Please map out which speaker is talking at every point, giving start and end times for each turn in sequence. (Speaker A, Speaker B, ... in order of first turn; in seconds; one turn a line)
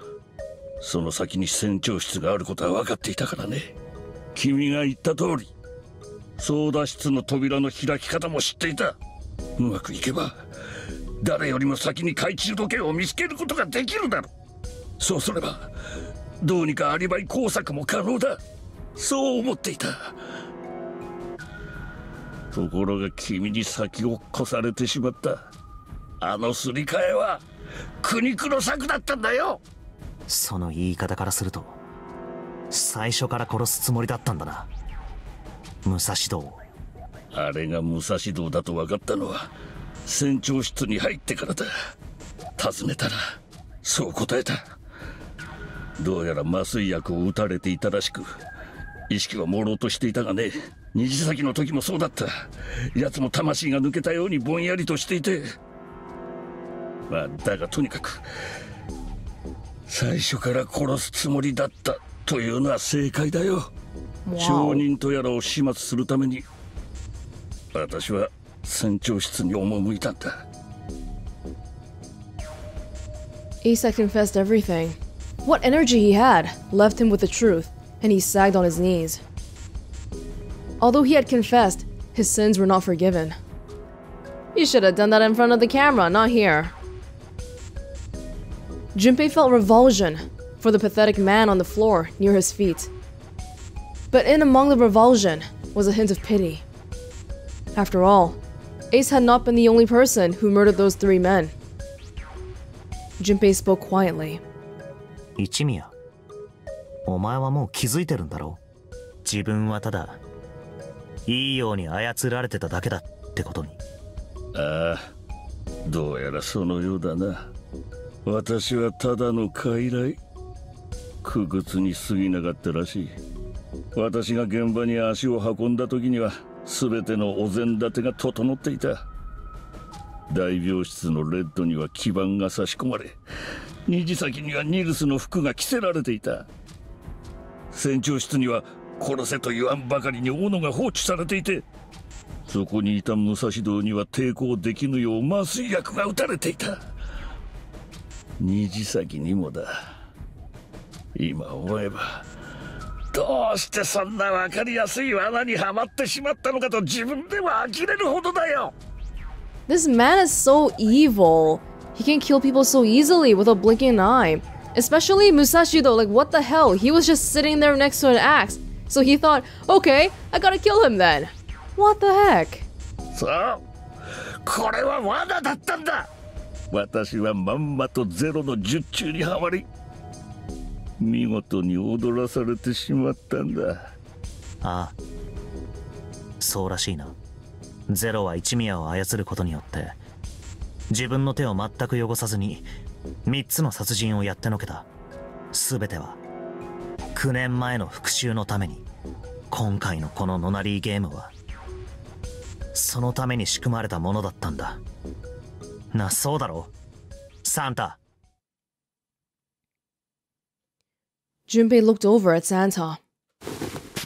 Speaker A: 0.8-3.7
Speaker A: 4.3-5.5
Speaker A: 6.4-9.0
Speaker A: 9.6-10.4
Speaker A: 11.2-14.3
Speaker A: 15.0-15.7
Speaker A: 16.4-18.4
Speaker A: 19.0-20.1
Speaker A: 22.5-25.5
Speaker A: 26.2-27.4
Speaker A: 28.0-29.6
Speaker B: 30.3-31.8
Speaker B: 32.7-34.7
Speaker B: 35.8-36.6
Speaker A: 37.3-39.5
Speaker A: 40.0-41.7
Speaker A: 42.6-43.2
Speaker A: 43.8-44.7
Speaker A: 46.0-48.4
Speaker A: 49.1-55.5
Speaker A: 57.1-58.2
Speaker A: 59.9-63.7
Speaker C: 64.2-64.8
Speaker A: 64.4-66.4
Speaker A: 67.7-70.4
Speaker C: 73.6-79.2
Speaker C: 80.8-83.3
Speaker C: 84.5-86.7
Speaker C: 88.9-92.9
Speaker C: 94.1-96.6
Speaker C: 97.8-98.4
Speaker C: 98.9-101.5
Speaker C: 103.2-104.4
Speaker B: 105.4-105.9
Speaker B: 107.0-108.6
Speaker B: 109.2-110.2
Speaker B: 111.3-113.8
Speaker A: 114.5-115.0
Speaker A: 115.8-117.5
Speaker A: 118.2-120.2
Speaker A: 121.2-123.2
Speaker A: 123.9-129.0
Speaker A: 130.3-133.2
Speaker A: 133.9-136.5
Speaker A: 137.7-141.6
Speaker A: 142.5-146.8
Speaker A: 148.4-149.7
Speaker A: 151.1-152.2
Speaker A: 153.1-158.7
Speaker C: 159.7-172.7
Speaker A: 173.1-173.6
Speaker A: 174.4-176.1
Speaker A: 176.7-179.6
Speaker A: 181.0-183.8
Speaker B: 184.6-184.9
Speaker B: 186.4-187.1
Speaker B: 187.9-190.0
Speaker B: 190.9-192.7
Speaker B: 193.2-194.9
Speaker B: 195.5-196.2
Speaker B: 197.1-198.8
Speaker B: 199.5-201.3
Speaker B: 202.7-204.8
Speaker B: 205.9-206.7
Speaker B: 207.4-208.0
Speaker C: 211.5-213.0